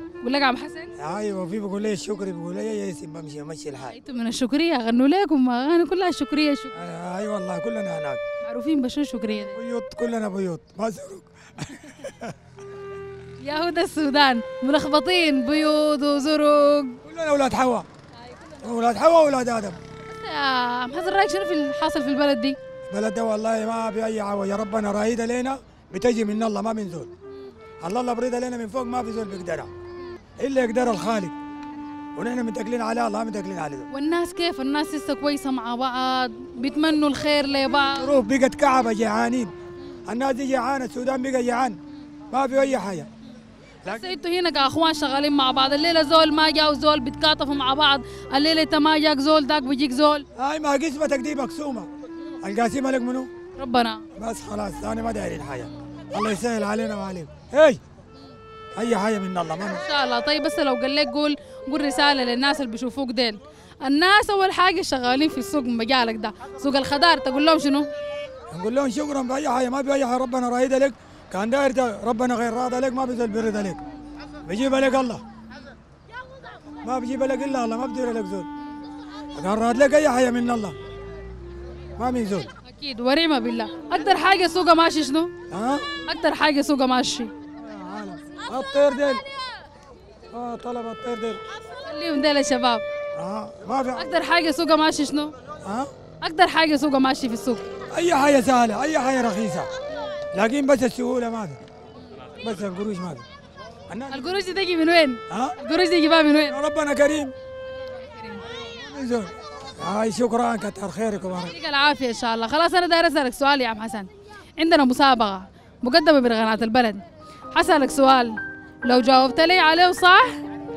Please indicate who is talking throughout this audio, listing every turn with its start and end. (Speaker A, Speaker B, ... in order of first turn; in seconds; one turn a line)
Speaker A: 0.2-0.9
Speaker B: 1.0-4.0
Speaker A: 3.9-6.8
Speaker B: 6.7-8.2
Speaker A: 8.4-9.6
Speaker B: 9.3-12.3
Speaker A: 13.4-17.0
Speaker B: 17.0-17.9
Speaker A: 18.3-18.7
Speaker B: 18.6-19.8
Speaker A: 20.0-22.6
Speaker B: 22.9-27.1
Speaker B: 27.8-29.7
Speaker B: 30.4-31.4
Speaker B: 32.1-33.9
Speaker A: 33.9-38.1
Speaker B: 37.9-39.5
Speaker B: 40.1-41.8
Speaker B: 42.3-43.1
Speaker B: 43.9-44.2
Speaker A: 43.9-50.3
Speaker B: 50.4-51.9
Speaker B: 52.4-53.3
Speaker A: 53.6-54.1
Speaker B: 54.1-57.8
Speaker B: 58.8-59.8
Speaker A: 59.8-67.9
Speaker B: 68.5-73.8
Speaker B: 74.5-75.2
Speaker B: 76.8-78.5
Speaker B: 79.3-80.8
Speaker B: 82.0-82.5
Speaker A: 82.6-85.3
Speaker B: 85.5-85.9
Speaker A: 86.0-87.3
Speaker B: 87.6-89.2
Speaker B: 90.3-91.4
Speaker A: 91.8-92.8
Speaker B: 93.2-94.1
Speaker A: 94.0-95.3
Speaker B: 95.6-95.9
Speaker A: 96.2-97.7
Speaker B: 97.9-99.7
Speaker B: 100.3-101.6
Speaker B: 102.4-103.2
Speaker B: 103.9-104.4
Speaker A: 104.1-106.6
Speaker B: 105.3-105.5
Speaker B: 106.5-107.3
Speaker A: 108.0-108.4
Speaker B: 108.5-111.5
Speaker A: 111.5-120.4